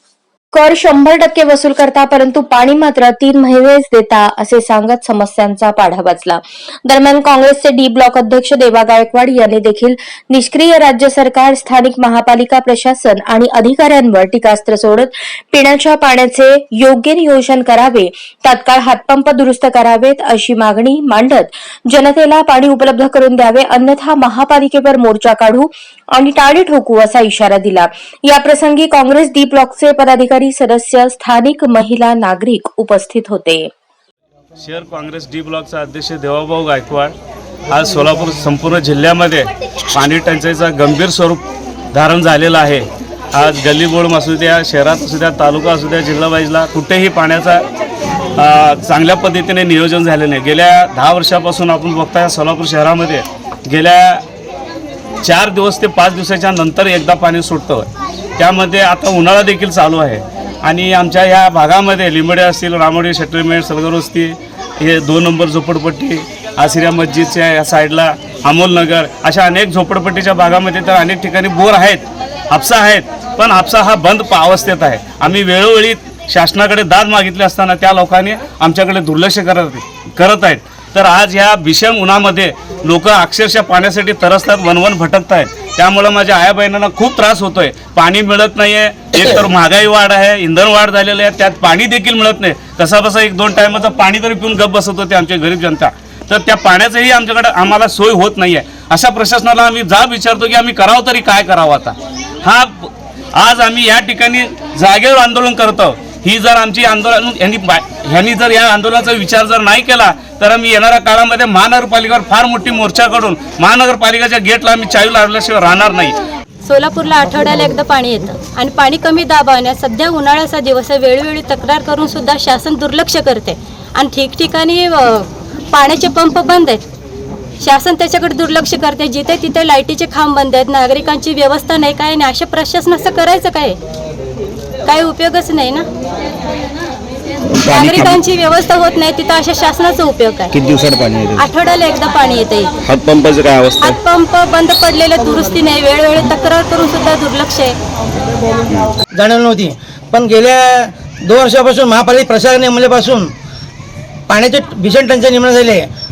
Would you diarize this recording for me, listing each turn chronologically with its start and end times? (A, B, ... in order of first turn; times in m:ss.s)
0:00.5-0:33.7 A
0:34.6-0:37.2 B
0:37.7-0:47.6 B
0:48.4-0:54.2 B
0:55.2-1:56.2 B
1:56.6-2:06.8 C
2:07.6-2:13.8 C
2:14.9-2:15.9 C
2:17.6-2:18.2 D
2:17.6-2:20.5 C
2:20.5-2:21.5 D
2:21.4-2:22.7 C
2:22.8-2:24.0 D
2:23.8-2:27.7 C
2:29.1-2:33.3 E
2:34.3-2:35.9 E